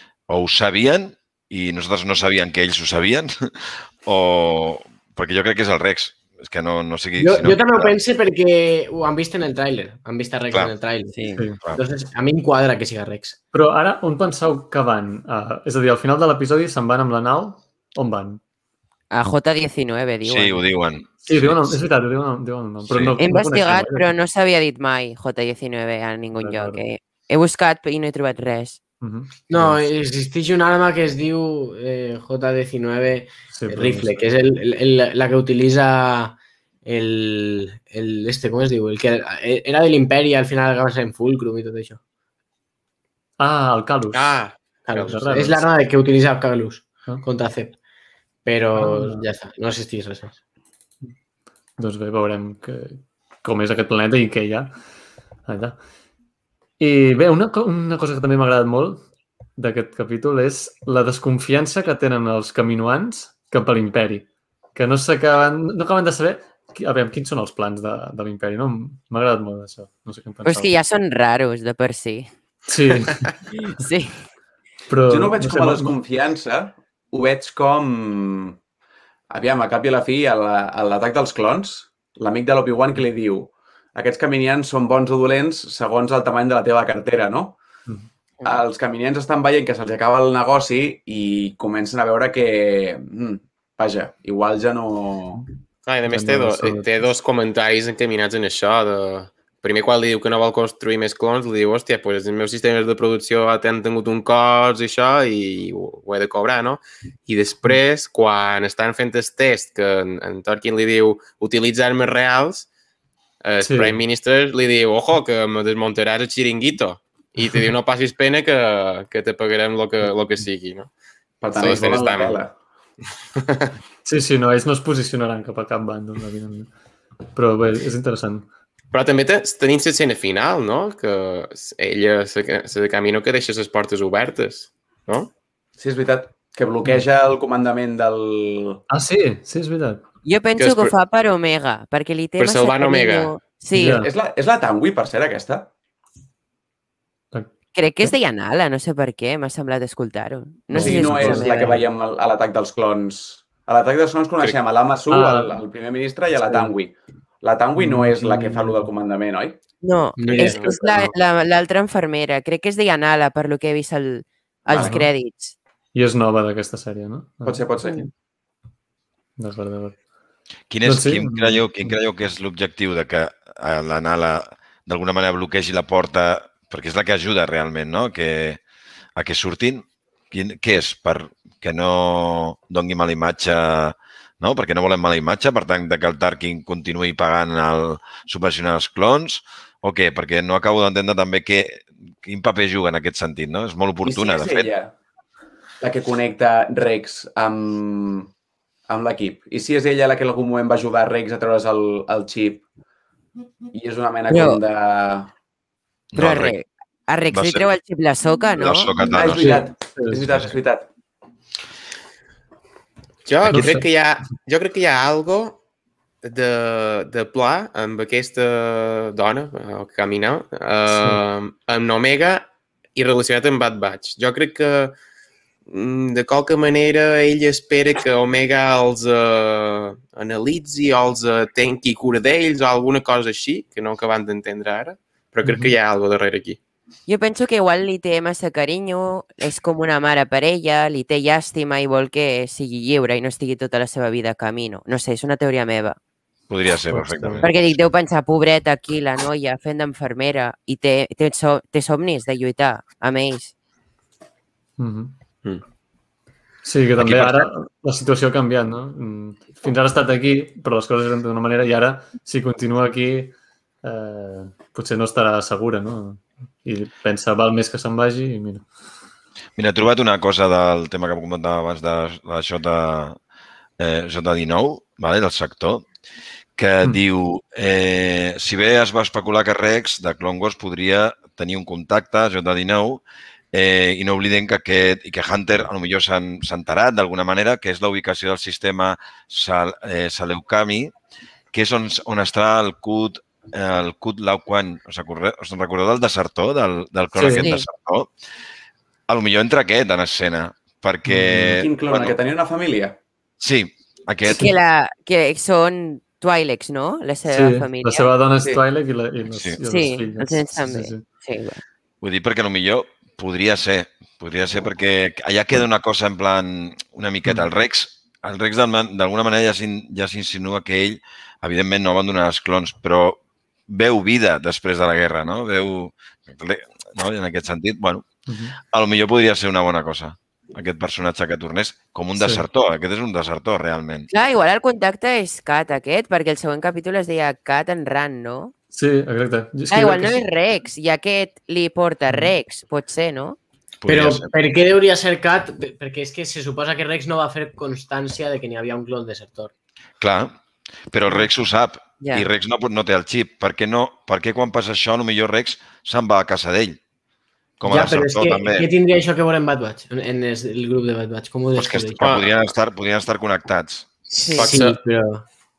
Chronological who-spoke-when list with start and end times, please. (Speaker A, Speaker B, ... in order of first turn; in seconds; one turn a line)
Speaker A: 0.3-8.0
Speaker B: 7.2-13.4
Speaker A: 10.5-11.8
Speaker C: 13.5-18.4
Speaker D: 19.1-20.6
Speaker A: 20.2-21.9
Speaker C: 21.2-24.1
Speaker A: 22.9-23.2
Speaker D: 23.2-28.8
Speaker C: 26.4-26.8
Speaker C: 29.0-29.9
Speaker B: 29.5-42.0
Speaker C: 33.5-34.3
Speaker C: 43.4-45.7
Speaker E: 44.1-44.6
Speaker B: 44.9-47.8
Speaker B: 48.5-50.4
Speaker C: 48.8-49.3
Speaker C: 51.8-54.7
Speaker C: 55.5-55.8
Speaker C: 56.8-59.0
Speaker C: 59.6-70.7
Speaker D: 70.4-72.3
Speaker C: 72.7-73.3
Speaker D: 73.6-74.2
Speaker C: 74.9-76.0
Speaker F: 75.1-78.6
Speaker F: 79.3-87.6
Speaker F: 88.4-95.5
Speaker E: 95.9-112.7
Speaker C: 96.1-96.9
Speaker E: 113.4-120.9
Speaker C: 113.6-114.0
Speaker F: 121.4-122.6
Speaker E: 121.5-122.4
Speaker C: 121.6-122.1
Speaker C: 124.0-126.7
Speaker C: 127.3-128.5
Speaker E: 128.9-135.3
Speaker F: 135.8-138.8
Speaker C: 138.9-140.1
Speaker D: 140.2-144.0
Speaker E: 140.6-140.9
Speaker E: 142.4-143.3
Speaker C: 143.7-144.1
Speaker F: 144.0-145.7
Speaker D: 147.7-151.8
Speaker C: 150.7-151.8
Speaker F: 150.8-159.6
Speaker C: 155.1-155.6
Speaker C: 156.4-156.7
Speaker C: 157.8-158.9
Speaker D: 159.8-165.5
Speaker B: 160.2-161.1
Speaker E: 160.3-160.8
Speaker F: 164.7-165.0
Speaker C: 164.7-165.1
Speaker C: 165.9-168.1
Speaker F: 167.4-168.0
Speaker C: 169.4-170.0
Speaker A: 170.7-178.6
Speaker C: 170.8-172.0
Speaker A: 179.2-194.7
Speaker F: 194.1-194.9
Speaker F: 195.8-198.3
Speaker F: 198.9-202.6
Speaker F: 203.7-205.3
Speaker D: 204.3-204.6
Speaker A: 206.1-206.5
Speaker D: 206.2-209.0
Speaker A: 207.3-207.7
Speaker A: 208.6-209.6
Speaker F: 209.0-210.9
Speaker C: 209.4-210.5
Speaker E: 213.3-215.6
Speaker C: 213.5-213.8
Speaker E: 216.2-225.0
Speaker C: 220.9-221.2
Speaker E: 225.7-236.6
Speaker C: 235.4-235.7
Speaker D: 237.1-246.0
Speaker A: 246.5-247.5
Speaker C: 246.9-247.5
Speaker D: 247.4-253.5
Speaker C: 254.8-255.1
Speaker C: 256.6-268.7
Speaker A: 257.0-257.4
Speaker A: 269.6-273.2
Speaker A: 273.8-275.9
Speaker A: 276.6-283.0
Speaker A: 283.5-290.9
Speaker A: 291.5-298.1
Speaker C: 297.1-297.5
Speaker D: 297.4-297.6
Speaker A: 299.1-302.2
Speaker C: 301.1-301.6
Speaker F: 301.5-303.0
Speaker A: 303.4-304.5
Speaker D: 304.3-308.1
Speaker C: 307.3-311.0
Speaker D: 309.6-311.6
Speaker A: 312.0-328.1
Speaker C: 328.3-328.6
Speaker A: 328.6-334.1
Speaker C: 332.2-332.4
Speaker D: 334.1-338.5
Speaker C: 338.7-340.2
Speaker D: 339.7-343.4
Speaker A: 343.8-344.3
Speaker B: 343.9-349.5
Speaker A: 350.0-350.4
Speaker A: 350.9-356.8
Speaker D: 352.0-352.3
Speaker A: 357.6-358.7
Speaker B: 357.7-362.0
Speaker A: 361.6-363.9
Speaker E: 362.0-362.3
Speaker B: 364.1-365.3
Speaker D: 364.2-364.5
Speaker E: 364.4-364.8